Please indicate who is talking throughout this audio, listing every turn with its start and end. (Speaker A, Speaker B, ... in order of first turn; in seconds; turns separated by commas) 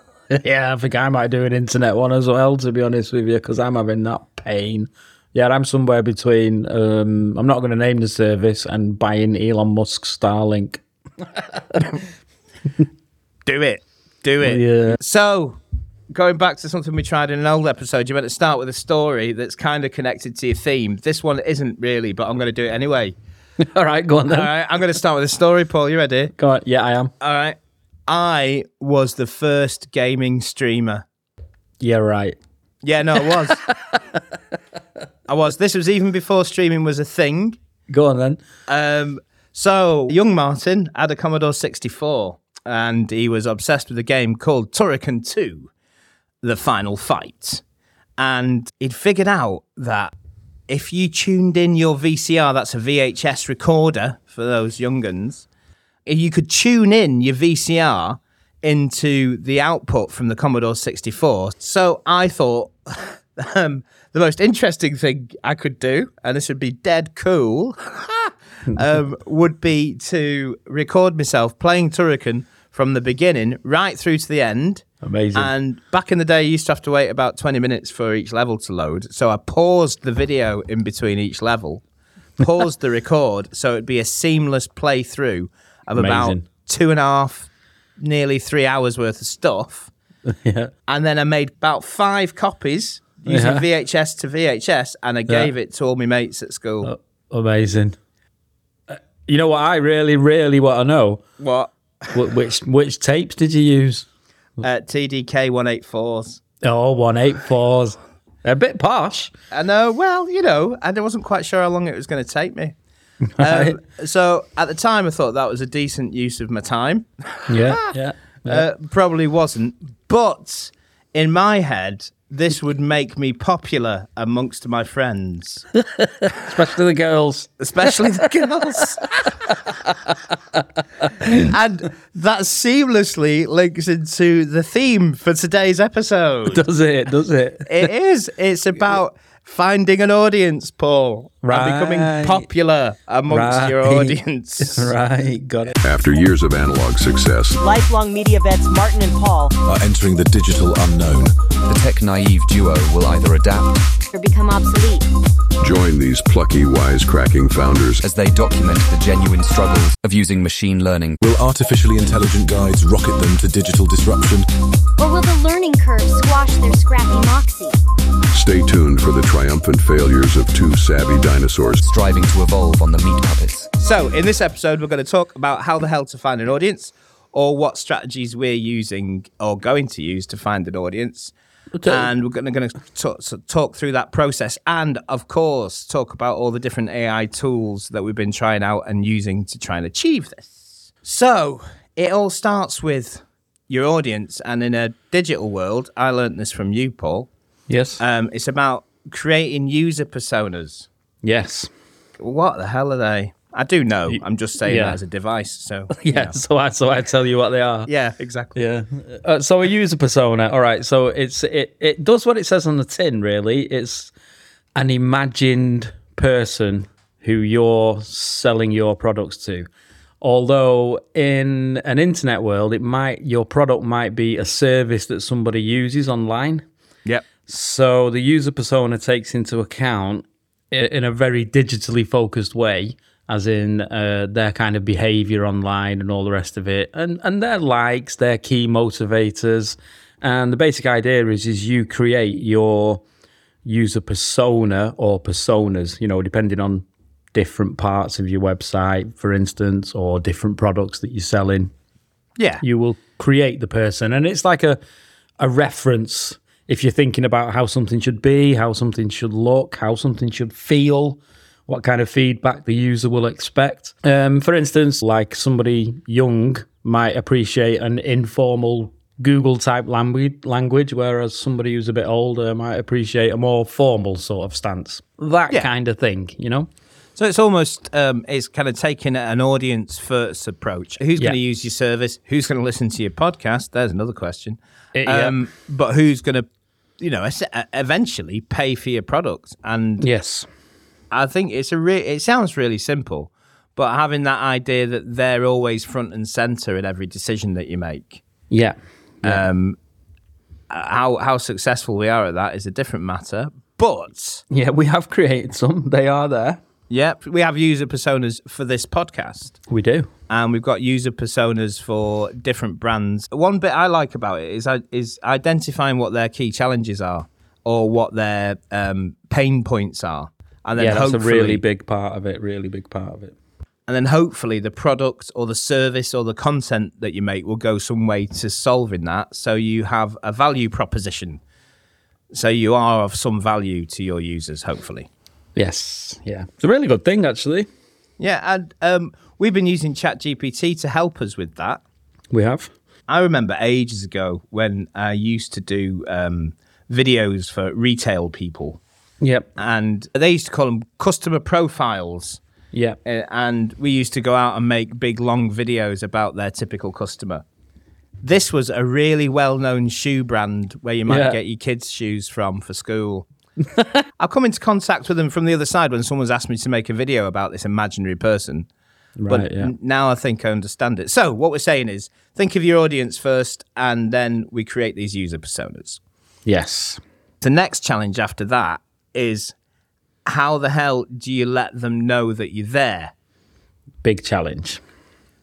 Speaker A: 0.3-10.8, Speaker A: 11.5-12.0, Speaker B: 13.5-15.6, Speaker A: 14.4-15.0, Speaker B: 16.1-23.2, Speaker A: 23.6-24.5, Speaker B: 24.3-26.3, Speaker A: 26.4-27.1, Speaker B: 27.2-31.1, Speaker A: 31.8-32.4, Speaker B: 32.8-33.6, Speaker A: 33.2-34.2, Speaker B: 35.3-37.6, Speaker A: 37.9-38.4, Speaker B: 38.7-45.7, Speaker B: 46.4-47.6, Speaker B: 48.2-50.1, Speaker B: 50.7-55.5, Speaker B: 56.1-81.8, Speaker A: 75.0-75.5, Speaker B: 82.4-87.5, Speaker A: 85.9-86.5, Speaker B: 88.0-89.9, Speaker A: 90.3-90.7, Speaker B: 90.9-96.9, Speaker A: 93.3-93.7, Speaker A: 96.8-98.0, Speaker A: 98.9-101.2, Speaker B: 101.4-101.7, Speaker A: 102.1-104.1, Speaker B: 104.6-106.4, Speaker A: 106.6-109.3, Speaker B: 109.5-112.8, Speaker A: 113.2-113.8, Speaker B: 113.4-117.9, Speaker A: 117.5-118.7, Speaker B: 118.5-125.7, Speaker A: 125.8-128.8, Speaker B: 127.6-129.1, Speaker A: 129.5-130.2, Speaker A: 131.2-131.5, Speaker B: 131.2-136.6, Speaker A: 136.5-137.9, Speaker B: 137.7-144.9, Speaker A: 141.4-142.5, Speaker A: 143.3-145.8, Speaker C: 145.8-147.6, Speaker D: 147.6-149.5, Speaker E: 149.7-151.3, Speaker F: 151.7-153.8, Speaker G: 154.1-155.1, Speaker C: 155.6-158.0, Speaker F: 158.0-161.2, Speaker E: 161.2-164.5, Speaker G: 165.0-167.8, Speaker C: 168.3-171.8, Speaker F: 171.8-173.7, Speaker B: 173.8-181.3, Speaker A: 181.8-182.1, Speaker B: 181.9-197.3, Speaker A: 197.7-198.0, Speaker B: 198.0-200.9, Speaker A: 201.2-201.7, Speaker B: 202.2-206.4, Speaker A: 204.1-205.0, Speaker A: 205.9-207.9, Speaker B: 207.9-208.6, Speaker A: 208.6-214.1, Speaker A: 214.8-219.7, Speaker A: 220.2-226.7, Speaker A: 227.5-243.0, Speaker A: 243.6-251.7, Speaker B: 252.4-252.6, Speaker A: 252.6-254.8, Speaker A: 255.4-276.7, Speaker B: 277.2-286.5, Speaker A: 284.9-285.4, Speaker B: 287.0-290.1, Speaker A: 290.0-290.5, Speaker B: 291.1-298.2, Speaker A: 298.5-299.4, Speaker B: 299.2-299.8, Speaker B: 300.7-304.4, Speaker A: 304.5-306.6, Speaker B: 306.9-309.6, Speaker A: 309.7-310.1, Speaker B: 310.3-321.6, Speaker A: 320.8-323.4, Speaker B: 323.9-331.4, Speaker B: 332.3-335.1, Speaker A: 335.6-337.7, Speaker B: 338.2-341.8, Speaker A: 342.3-342.7, Speaker B: 343.1-348.8, Speaker A: 349.2-349.5, Speaker B: 349.6-352.4, Speaker A: 352.7-353.0, Speaker B: 353.1-357.4, Speaker B: 358.2-363.2, Speaker A: 361.1-361.4, Speaker B: 364.2-368.7, Speaker A: 369.2-369.7, Speaker B: 369.3-376.0, Speaker A: 376.4-377.0, Speaker B: 377.4-379.5, Speaker B: 380.3-383.1, Speaker A: 384.0-384.8